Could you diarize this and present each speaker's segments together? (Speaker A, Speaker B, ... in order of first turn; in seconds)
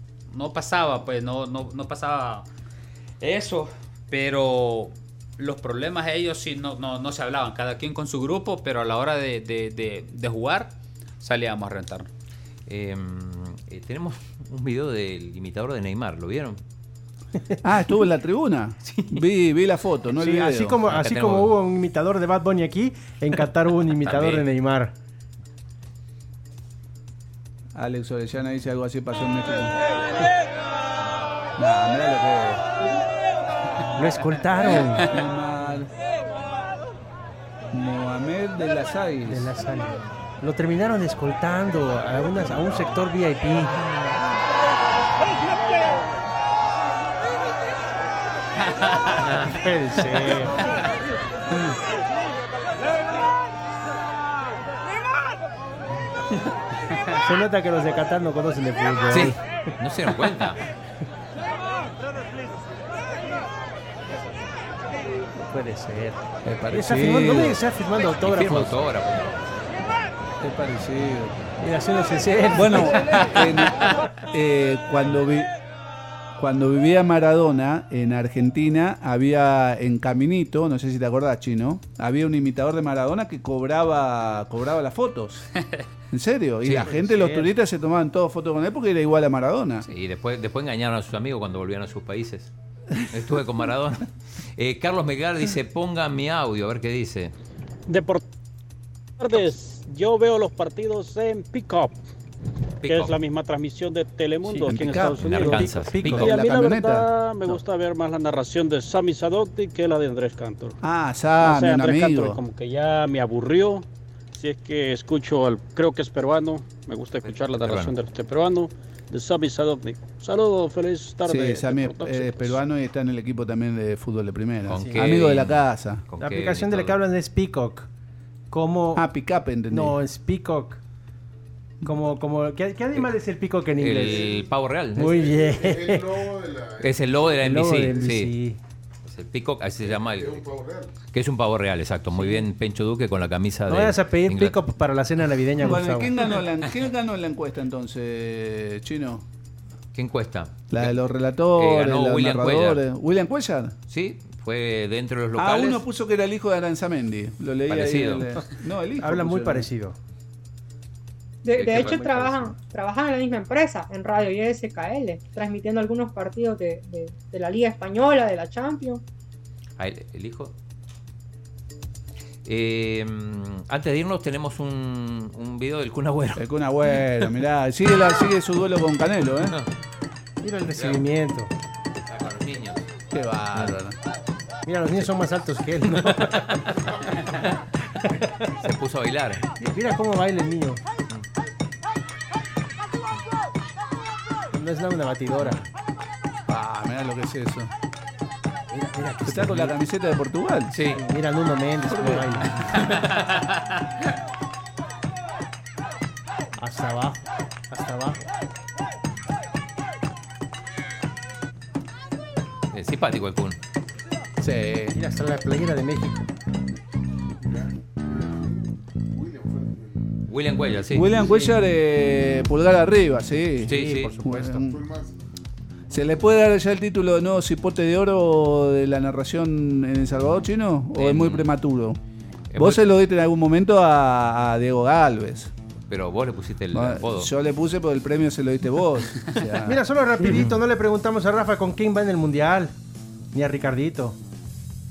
Speaker A: 0.3-2.5, 3.2-12.1
Speaker B: 12.7-16.6, 20.9-21.5, 24.0-24.4, 59.1-60.6, 68.2-69.6, 89.9-92.5, 93.1-97.3, 102.8-103.2, 105.2-106.3, 117.2-117.9, 124.7-127.0, 133.8-135.4, 136.8-138.3, 139.1-140.5, 141.1-144.6, 149.9-150.9, 151.6-152.8, 153.9-155.8, 157.7-158.3, 161.6-162.2, 169.8-170.5, 172.4-176.4, 180.7-181.0, 182.1-182.8, 188.6-189.5, 200.7-201.0, 212.7-213.6, 220.3-221.1, 223.7-224.1, 231.0-231.5, 232.5-232.8, 235.9-237.3
Speaker C: 17.6-20.8, 27.7-29.7, 31.6-32.6, 35.0-35.9, 37.7-39.5, 66.4-67.6, 70.4-71.3, 72.5-75.5, 76.4-85.5, 86.1-89.9, 104.7-107.1, 110.8-112.4, 121.2-126.0, 128.9-130.0, 145.6-149.2, 150.7-153.7, 155.4-159.7, 176.4-179.6, 183.1-184.0, 196.5-197.7, 199.2-200.7, 201.9-202.4, 214.4-215.0, 220.9-224.8, 225.9-232.0, 232.6-235.5, 236.7-240.3
Speaker D: 20.2-24.9, 34.0-35.1, 39.3-43.8, 49.4-50.5, 57.2-59.4, 65.4-68.7, 71.6-73.2, 86.7-87.5, 105.4-106.3, 126.2-127.9, 128.5-129.0, 129.7-130.8, 131.8-134.3, 134.9-136.2, 137.3-138.6, 142.1-142.4, 143.7-146.1, 159.0-159.9, 161.6-162.5, 180.4-181.5, 184.7-186.6, 189.6-190.8, 194.5-195.6, 198.7-199.7, 200.9-203.1, 206.6-208.2, 214.9-216.2, 221.2-221.5, 223.7-224.7, 239.6-242.7, 243.3-244.2
Speaker E: 97.9-98.2, 99.2-102.0, 102.8-110.8, 111.4-122.6
Speaker F: 161.4-169.0